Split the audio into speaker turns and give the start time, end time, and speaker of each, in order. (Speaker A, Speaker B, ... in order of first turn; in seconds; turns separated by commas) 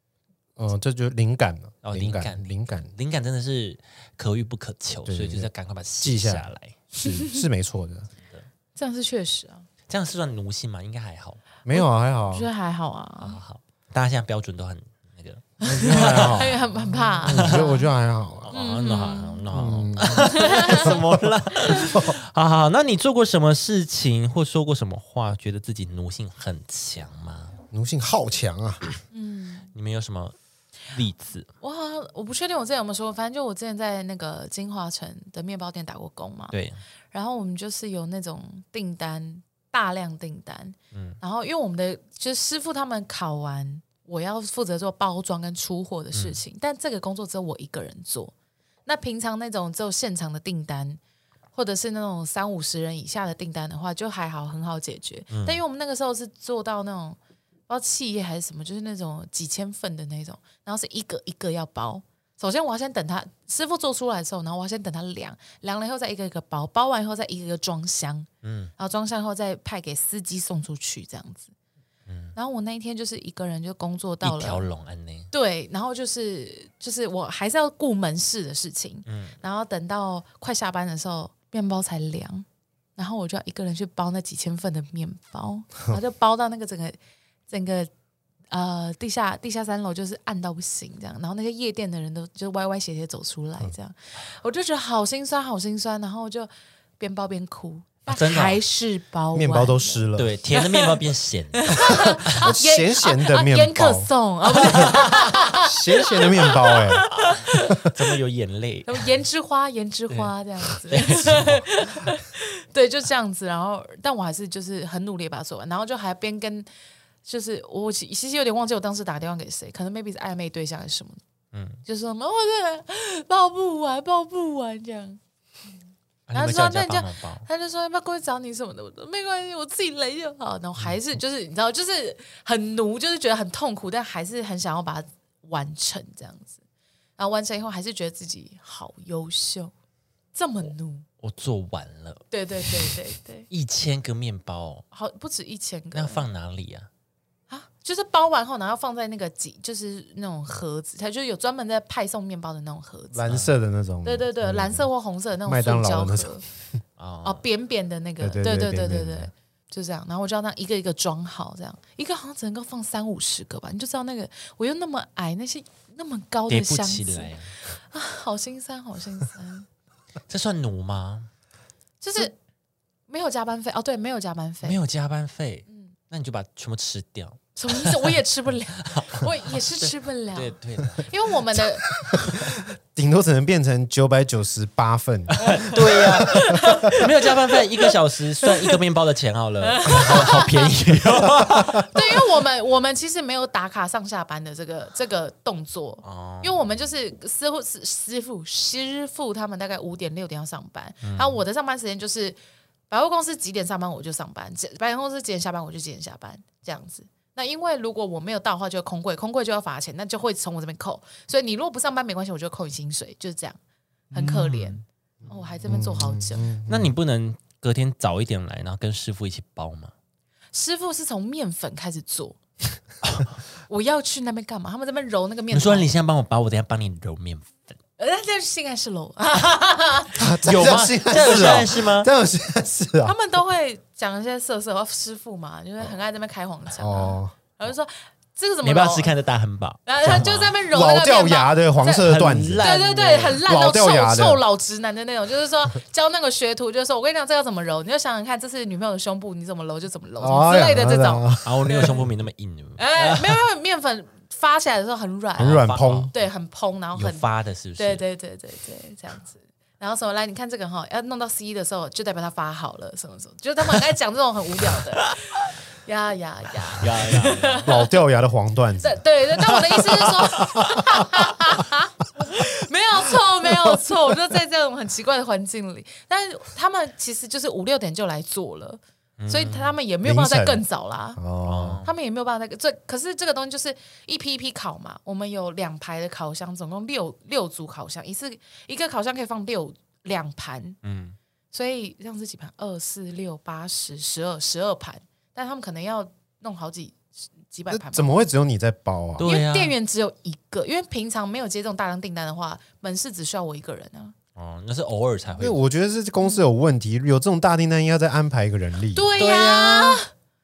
Speaker A: 0.6-2.9, Speaker B: 1.8-6.8, Speaker A: 5.0-5.5, Speaker A: 6.0-8.1, Speaker C: 7.0-7.4, Speaker B: 8.2-8.5, Speaker C: 8.7-9.7, Speaker B: 9.9-11.4, Speaker A: 11.7-12.5, Speaker C: 11.7-13.4, Speaker B: 13.2-16.5, Speaker C: 15.6-17.9, Speaker A: 15.6-18.5, Speaker B: 17.2-17.6, Speaker B: 18.4-27.6, Speaker C: 18.5-19.4, Speaker A: 19.5-22.1, Speaker C: 20.1-20.9, Speaker A: 27.7-28.8, Speaker C: 29.1-29.7, Speaker B: 29.7-30.4, Speaker B: 30.9-31.5, Speaker C: 31.6-36.5, Speaker B: 36.5-36.8, Speaker C: 37.1-48.3, Speaker B: 40.9-41.2, Speaker B: 46.1-46.4, Speaker C: 48.9-51.0, Speaker C: 51.5-57.2, Speaker B: 55.3-55.6, Speaker C: 57.7-71.5, Speaker B: 68.4-68.7, Speaker B: 72.1-72.3, Speaker C: 72.3-74.6, Speaker B: 74.2-75.3, Speaker C: 75.3-82.4, Speaker B: 79.0-79.4, Speaker C: 83.0-87.0, Speaker C: 87.5-87.9, Speaker C: 88.5-101.0, Speaker B: 98.0-98.6, Speaker A: 99.3-100.3, Speaker B: 100.1-102.4, Speaker C: 101.6-107.8, Speaker A: 102.3-104.1, Speaker B: 104.6-105.3, Speaker A: 104.7-107.1, Speaker B: 107.1-109.0, Speaker C: 108.9-116.7, Speaker B: 110.1-111.7, Speaker C: 117.2-121.2, Speaker B: 121.5-121.8, Speaker C: 121.8-125.2, Speaker B: 126.3-127.5, Speaker C: 126.3-136.6, Speaker C: 137.2-139.7, Speaker C: 140.3-141.1, Speaker B: 141.2-142.9, Speaker C: 142.3-143.5, Speaker B: 143.5-144.8, Speaker C: 144.9-146.2, Speaker B: 145.9-146.9, Speaker C: 147.5-153.3, Speaker A: 153.1-154.9, Speaker B: 153.3-153.5, Speaker C: 154.0-156.4, Speaker A: 155.4-156.4, Speaker B: 157.0-157.4, Speaker C: 157.2-169.7, Speaker A: 158.2-159.3, Speaker B: 166.5-167.5, Speaker B: 170.3-171.3, Speaker C: 172.0-172.3, Speaker C: 173.1-174.8, Speaker B: 174.6-178.1, Speaker C: 175.7-175.9, Speaker C: 177.6-181.9, Speaker B: 178.8-181.1, Speaker A: 182.1-186.9, Speaker B: 185.3-192.1, Speaker C: 185.5-187.6, Speaker C: 189.7-190.7, Speaker C: 191.8-202.4, Speaker B: 196.0-196.6, Speaker B: 201.0-201.4, Speaker C: 202.9-213.6, Speaker C: 214.1-216.5, Speaker A: 214.1-216.9, Speaker B: 216.7-219.9, Speaker C: 220.5-222.4, Speaker C: 223.7-225.9, Speaker B: 225.5-227.8, Speaker C: 228.0-230.3, Speaker A: 230.1-233.2, Speaker B: 230.4-232.1, Speaker C: 231.2-231.6, Speaker C: 233.0-239.1, Speaker A: 236.7-237.4, Speaker B: 238.6-240.6, Speaker C: 239.8-252.1, Speaker A: 240.7-242.7, Speaker B: 242.0-243.4, Speaker A: 243.4-244.4, Speaker A: 250.2-251.7, Speaker B: 251.4-253.4, Speaker C: 252.8-257.2, Speaker A: 255.4-256.1, Speaker B: 255.4-256.1, Speaker B: 256.9-258.0, Speaker C: 257.8-267.9, Speaker B: 266.8-267.7, Speaker A: 267.6-269.0, Speaker C: 268.8-281.2, Speaker B: 279.2-279.8, Speaker A: 280.0-280.6, Speaker A: 281.2-281.8, Speaker B: 281.4-281.9, Speaker C: 281.8-290.8, Speaker B: 290.8-291.1, Speaker C: 291.5-298.3, Speaker A: 297.7-299.2, Speaker B: 299.2-299.7, Speaker C: 299.2-304.1, Speaker B: 304.4-305.6, Speaker A: 305.4-309.1, Speaker C: 306.2-306.4, Speaker C: 308.9-310.1, Speaker B: 309.2-310.0